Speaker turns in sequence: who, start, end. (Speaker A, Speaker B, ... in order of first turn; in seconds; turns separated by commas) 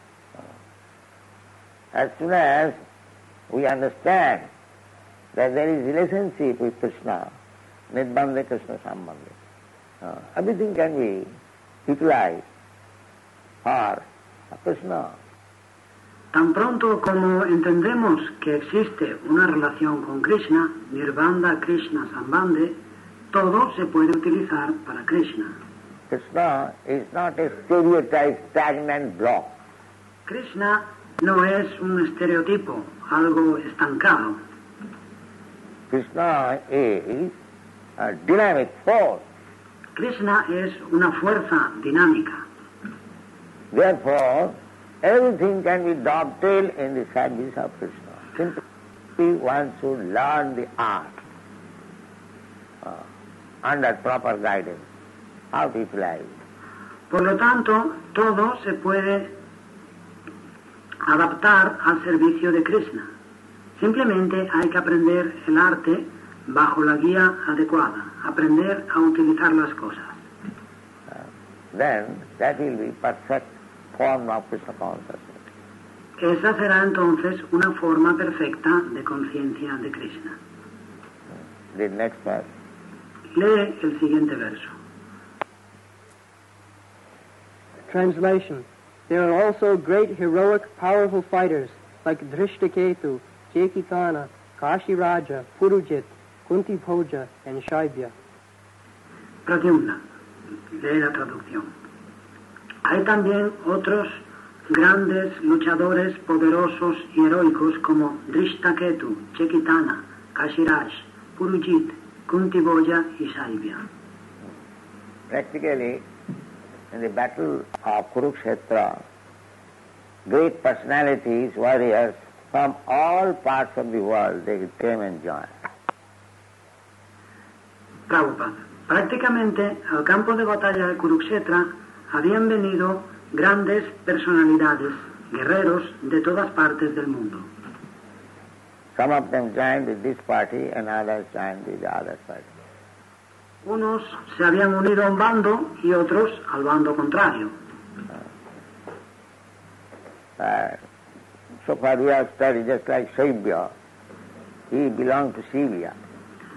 Speaker A: 1.9-2.8, Speaker A: 3.5-4.5, Speaker A: 5.3-7.3, Speaker A: 7.9-9.3, Speaker A: 10.0-11.3, Speaker A: 11.9-12.4, Speaker A: 13.6-15.2, Speaker B: 16.3-22.8, Speaker B: 23.3-25.5, Speaker A: 26.1-29.5, Speaker B: 30.3-34.4, Speaker A: 35.9-37.3, Speaker A: 38.0-39.2, Speaker B: 40.0-42.4, Speaker A: 43.7-48.6, Speaker A: 49.2-51.2, Speaker A: 53.6-54.8, Speaker A: 55.5-56.3, Speaker B: 57.1-59.3, Speaker B: 61.0-63.1, Speaker B: 63.8-70.2, Speaker A: 71.1-75.4, Speaker B: 76.2-80.4, Speaker A: 81.7-82.5, Speaker B: 83.3-84.7, Speaker C: 87.9-98.1, Speaker B: 99.5-100.0, Speaker B: 100.8-101.7, Speaker B: 102.8-113.8, Speaker A: 115.3-116.0, Speaker A: 116.9-119.0, Speaker A: 120.3-125.5, Speaker B: 128.1-137.5, Speaker A: 138.9-142.5, Speaker B: 143.6-147.5, Speaker A: 150.4-150.8, Speaker A: 151.6-153.7, Speaker A: 154.7-155.9